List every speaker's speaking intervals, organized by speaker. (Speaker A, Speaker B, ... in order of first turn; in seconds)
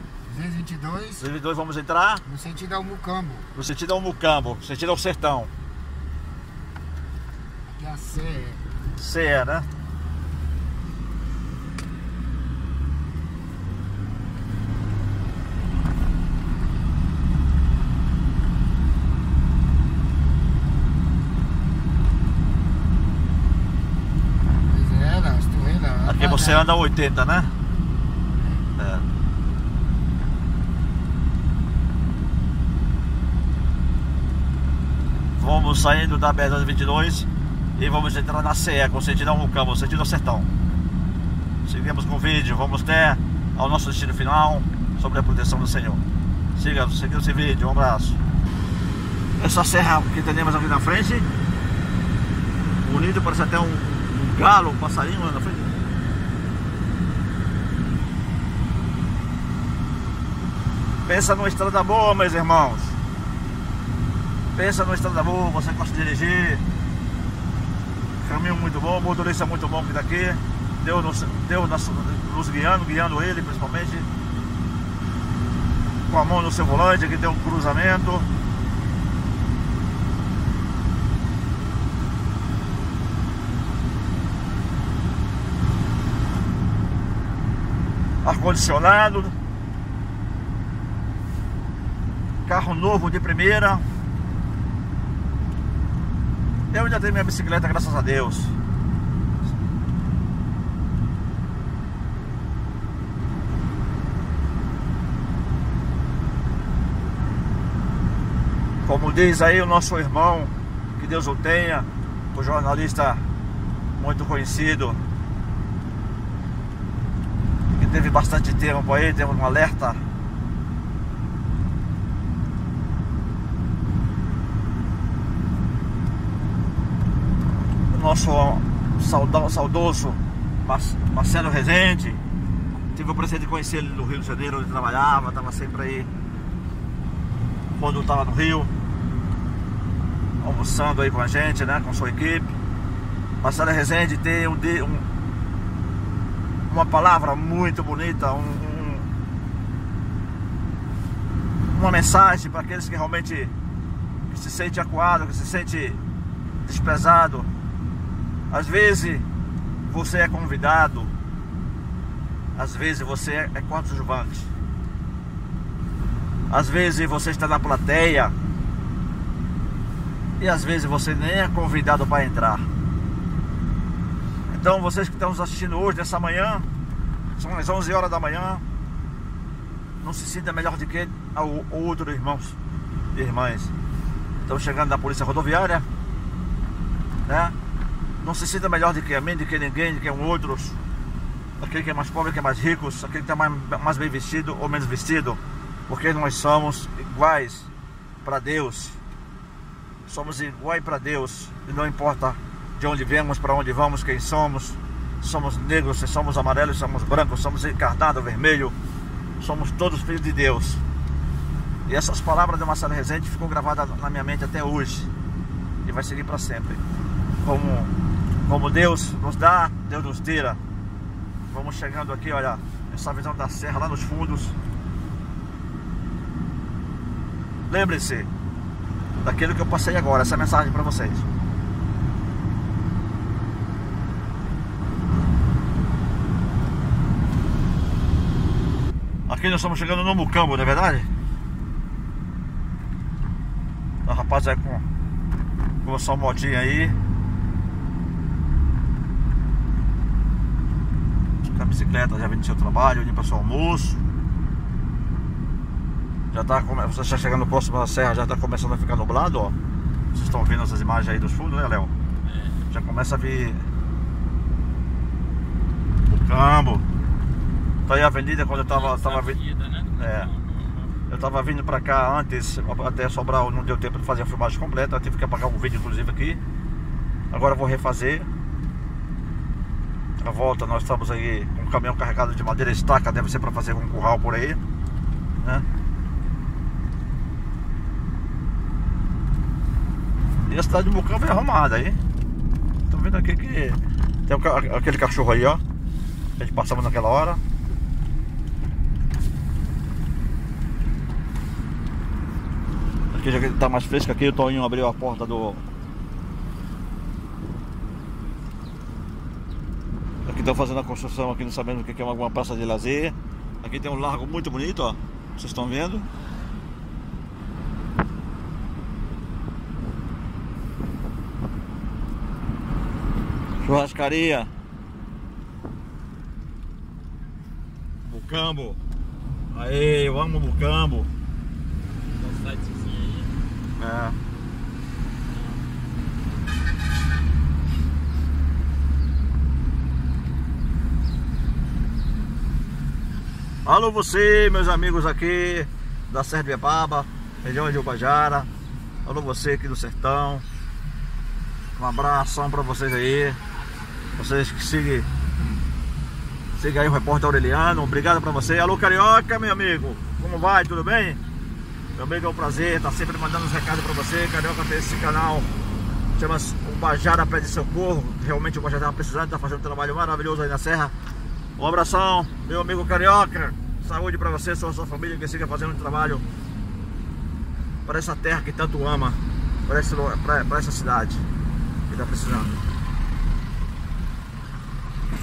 Speaker A: 0.3-1.2, 2.3-3.5, 7.7-8.7, 24.6-26.7, 28.3-28.7
Speaker B: 1.2-2.2, 3.5-5.5, 9.0-9.7, 26.1-27.5, 28.8-29.1, 35.4-40.5, 41.6-46.0, 46.6-48.2, 49.4-51.3, 52.8-55.8, 61.1-63.0, 64.5-66.6, 68.2-74.1, 76.1-78.3, 88.2-89.3, 92.5-93.9, 96.7-98.5, 108.8-113.2, 114.0-115.0, 117.7-120.0, 127.9-132.2, 132.9-136.1, 137.8-138.7, 140.4-142.5, 143.4-145.1, 146.7-149.1, 151.7-153.5, 154.3-156.0, 156.6-157.5, 158.5-159.3, 159.9-161.1, 162.6-164.5, 166.5-168.3, 170.4-172.7, 174.5-176.7, 177.4-178.6, 180.0-182.6, 183.1-183.7, 184.5-185.9, 187.3-187.6, 188.2-190.8, 191.6-197.7, 198.2-199.0, 200.1-208.8, 209.4-210.8, 211.9-215.1, 215.8-216.8, 217.4-217.9, 218.5-220.6, 221.5-224.6, 227.7-228.3, 229.2-231.3, 239.3-241.1, 244.1-244.8, 245.8-247.0, 251.4-254.0, 256.3-259.6, 260.1-261.9, 262.7-263.6, 266.1-266.9, 267.9-269.4, 270.0-270.3, 271.1-276.4, 277.3-278.3, 280.2-284.6, 290.5-292.0, 292.9-295.6, 296.4-297.4, 303.1-305.6, 310.3-316.1, 323.6-324.5, 328.0-328.8, 329.5-331.1, 333.8-334.2, 343.6-348.5, 349.1-350.4, 351.8-353.4, 354.2-355.1, 356.6-361.2, 362.0-365.5, 366.2-370.9, 371.6-376.2, 377.9-381.2, 381.9-382.6
Speaker C: 262.3-262.6, 268.5-271.1, 332.1-333.4, 335.3-335.6